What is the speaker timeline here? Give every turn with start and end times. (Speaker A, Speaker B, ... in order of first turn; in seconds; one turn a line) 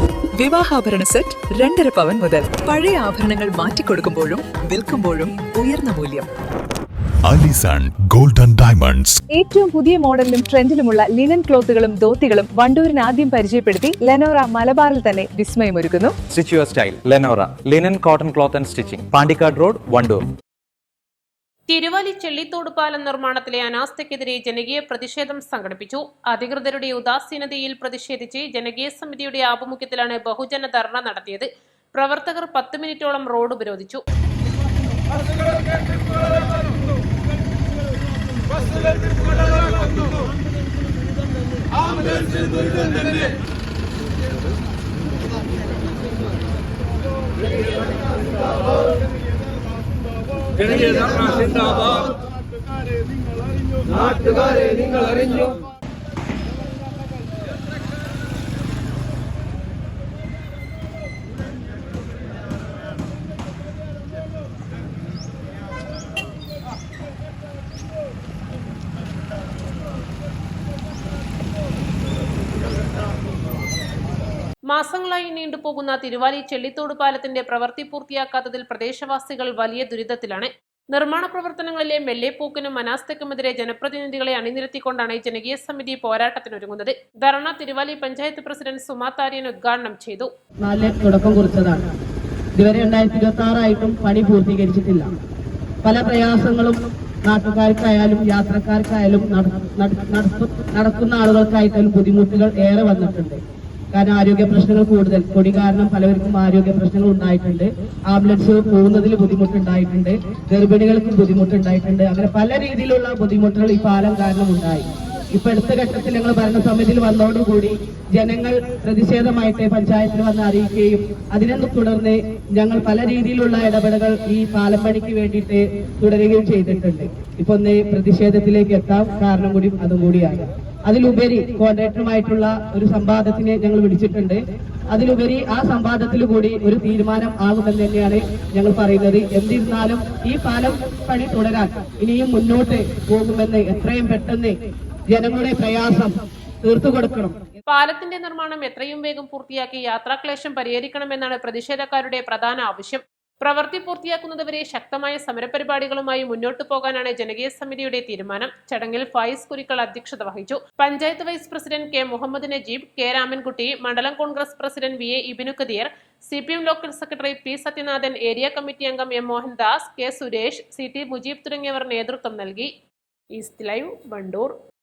Speaker A: 0.4-6.3
Speaker B: 7.3-9.2
Speaker C: 9.3-16.2
Speaker D: 16.3-20.2
Speaker E: 21.7-34.0
Speaker E: 74.7-90.3
Speaker F: 90.6-91.9
Speaker F: 92.6-95.1
Speaker F: 95.8-103.4
Speaker F: 103.9-134.4
Speaker F: 134.9-144.6
Speaker F: 145.1-146.1
Speaker F: 146.6-147.4
Speaker E: 147.7-172.7
Speaker E: 173.4-174.5